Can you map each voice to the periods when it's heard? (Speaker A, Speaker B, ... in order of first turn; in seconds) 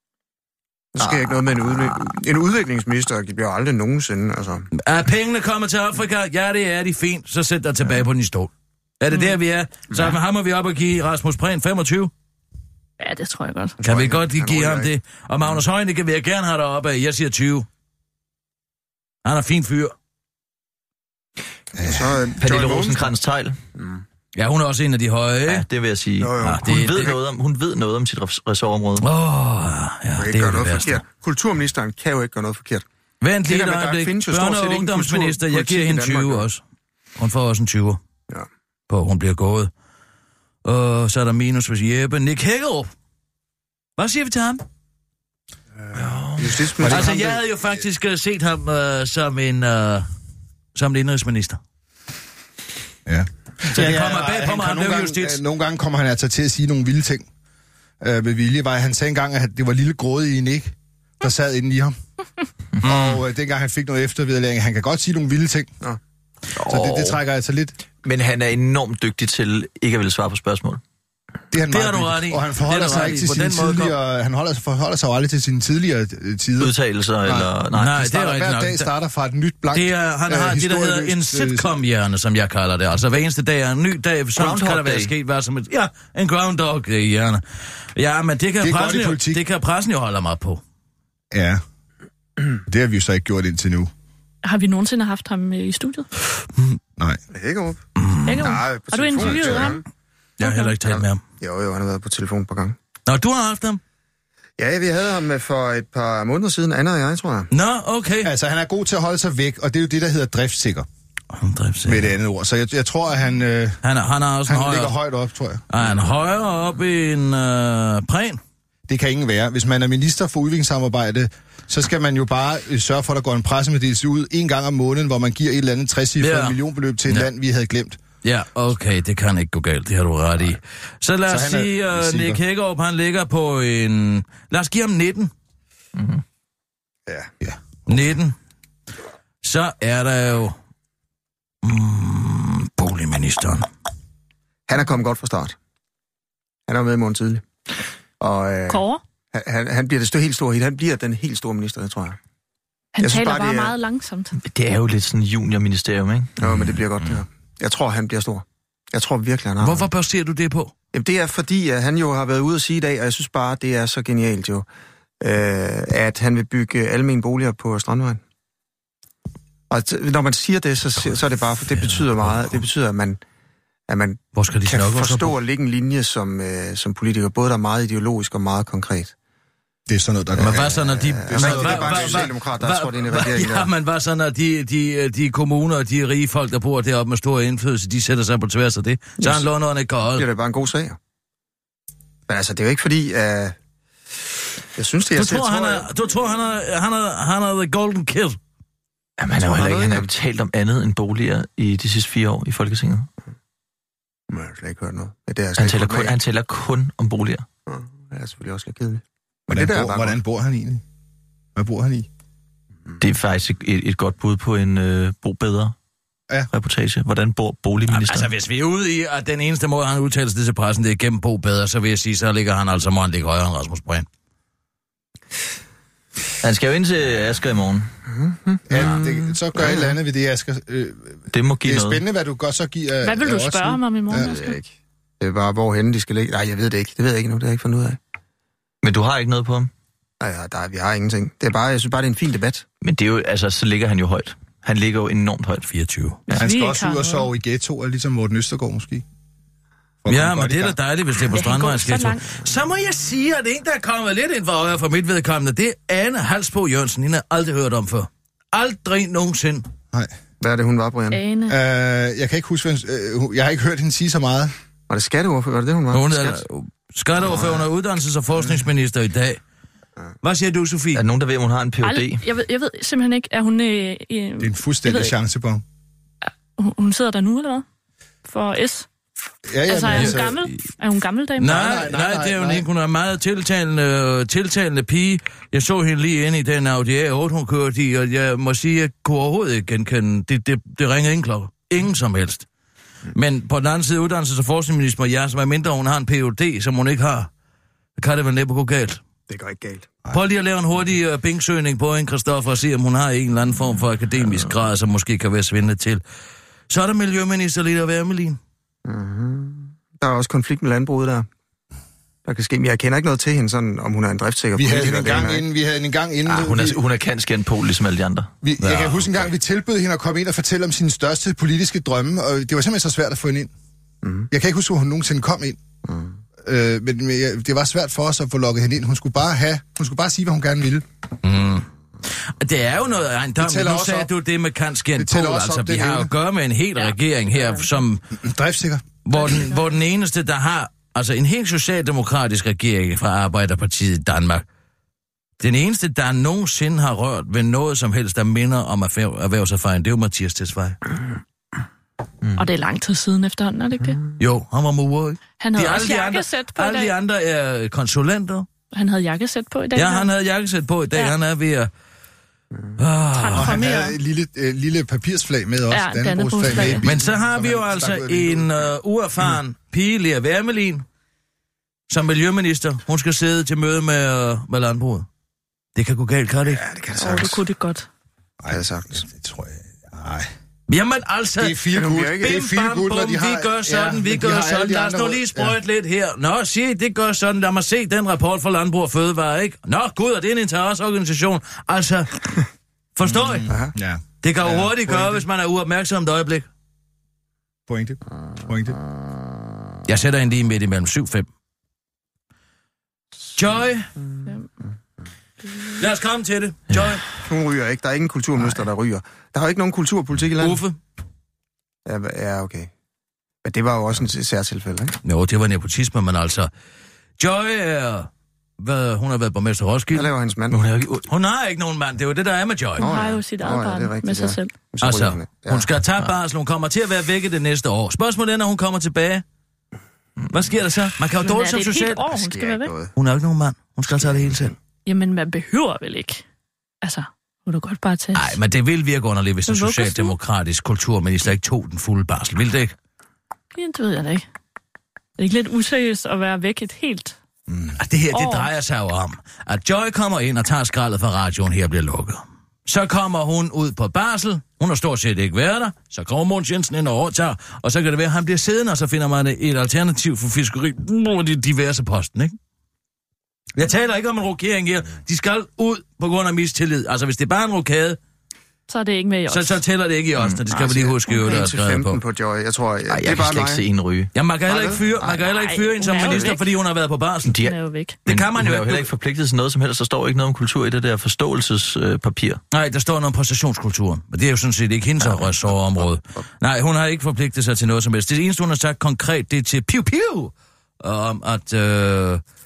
Speaker A: 0.9-4.7, 13.8-14.9, 21.8-23.1, 23.8-24.0, 26.2-27.1, 30.2-32.8, 33.5-36.4, 45.8-47.4, 97.3-97.8, 98.3-99.8, 100.8-102.8, 104.6-107.5, 144.7-145.6, 146.7-147.4, 148.2-152.2, 153.0-153.7, 156.4-159.9, 160.9-164.7, 165.2-168.2, 169.7-173.2, 173.9-179.1, 180.4-183.7, 190.2-191.0, 192.3-193.5, 194.8-195.9, 199.3-200.1, 204.3-206.2, 207.7-210.2, 228.1-229.9, 234.2-234.7, 235.2-238.0, 240.2-242.6, 260.4-261.2, 264.9-266.4, 299.3-299.9, 308.8-311.3, 312.2-315.4, 324.0-324.3, 325.9-326.1, 376.5-377.4, 378.5-379.0, 381.7-382.4, 407.2-410.6, 411.9-412.7, 413.4-414.9, 419.9-420.6, 422.8-425.7, 432.1-432.9, 433.9-434.6, 470.5-473.6, 474.4-474.9
Speaker B: 1.0-2.0, 22.4-23.6, 25.5-29.0, 46.1-46.4, 66.5-67.2, 68.0-70.8, 76.6-78.0, 84.3-85.1, 135.9-136.2, 154.4-156.3, 199.2-203.1, 205.6-207.4, 213.0-215.7, 216.5-218.3, 226.4-227.9, 231.3-232.0, 238.8-239.7, 242.8-245.7, 270.9-272.2, 316.2-318.3, 420.5-421.1, 472.9-474.1, 477.2-482.4
Speaker C: 4.7-12.1, 13.8-17.7, 19.2-19.9, 24.4-25.6, 26.4-27.1, 29.0-31.0, 33.2-36.6, 37.2-38.0, 38.9-39.7, 40.6-42.9, 44.0-44.6, 46.8-50.0, 50.7-51.6, 53.7-55.4, 62.8-63.2, 71.7-73.9, 77.7-78.9, 79.7-87.4, 88.0-90.6, 98.0-98.5, 100.4-101.2, 103.1-103.8, 107.5-108.3, 111.3-112.1, 113.8-114.9, 115.7-118.4, 126.2-127.3, 128.2-135.3, 137.9-138.3, 139.4-140.5, 141.6-143.7, 159.6-160.7, 171.8-172.6, 174.3-175.4, 180.4-190.2, 195.1-198.4, 217.9-224.1, 245.7-246.3, 250.1-259.6, 265.9-269.4, 270.2-271.0, 279.9-280.2, 281.4-292.4, 293.1-297.3, 298.0-299.0, 300.1-306.0, 306.7-308.4, 318.6-319.0, 331.2-331.6, 332.4-338.0, 339.0-344.4, 345.4-350.8, 354.2-358.5, 359.7-361.7, 362.8-363.6, 366.7-370.8, 371.9-375.1, 375.8-376.6, 380.7-392.1, 392.9-393.5, 394.2-396.5, 399.9-401.3, 403.4-403.9, 405.8-407.0, 410.4-410.8, 415.0-416.5, 417.2-420.1, 421.1-422.9, 424.8-429.2, 430.3-432.1, 432.9-434.5, 438.1-442.7, 447.8-462.4, 463.6-468.0, 469.3-472.0, 474.1-477.3, 478.1-478.9, 482.5-492.2
Speaker D: 13.0-13.8, 94.4-96.1, 98.2-99.8, 100.4-100.7, 148.7-149.0, 152.9-154.3, 233.0-234.6, 246.3-247.3, 251.3-252.3, 261.1-261.6, 271.8-275.1, 276.3-277.6, 278.2-278.9, 279.7-281.6, 336.8-337.6, 339.3-339.5, 352.4-354.0, 355.4-356.9, 358.7-360.1, 363.1-363.9, 365.7-366.9, 376.9-377.9, 422.8-424.6, 431.2-432.7, 434.9-436.2, 436.8-438.4, 439.5-440.1, 443.5-444.2, 445.2-447.1, 448.1-448.5, 468.7-469.6, 471.1-471.4, 475.0-476.5, 477.4-478.0
Speaker E: 21.8-22.3, 46.8-47.1, 53.0-57.2, 58.0-62.0, 62.8-65.7, 66.7-67.7, 71.5-81.7, 88.6-89.4, 91.3-91.6, 92.7-93.9, 99.2-99.5, 108.2-110.8, 111.8-113.8, 114.5-115.7, 118.9-128.0, 131.3-132.4, 137.4-138.1, 179.9-182.3, 209.5-210.8, 211.6-212.1, 228.7-234.3, 246.3-249.0, 250.0-250.8, 261.5-264.5, 274.4-275.6, 279.5-280.4, 281.5-282.6, 314.5-316.8, 318.4-323.5, 324.3-325.6, 326.4-330.8, 333.4-334.1, 334.9-336.1, 338.1-338.8, 363.3-368.5, 378.4-380.3, 381.4-385.6, 393.0-395.2, 397.7-398.8, 447.5-447.8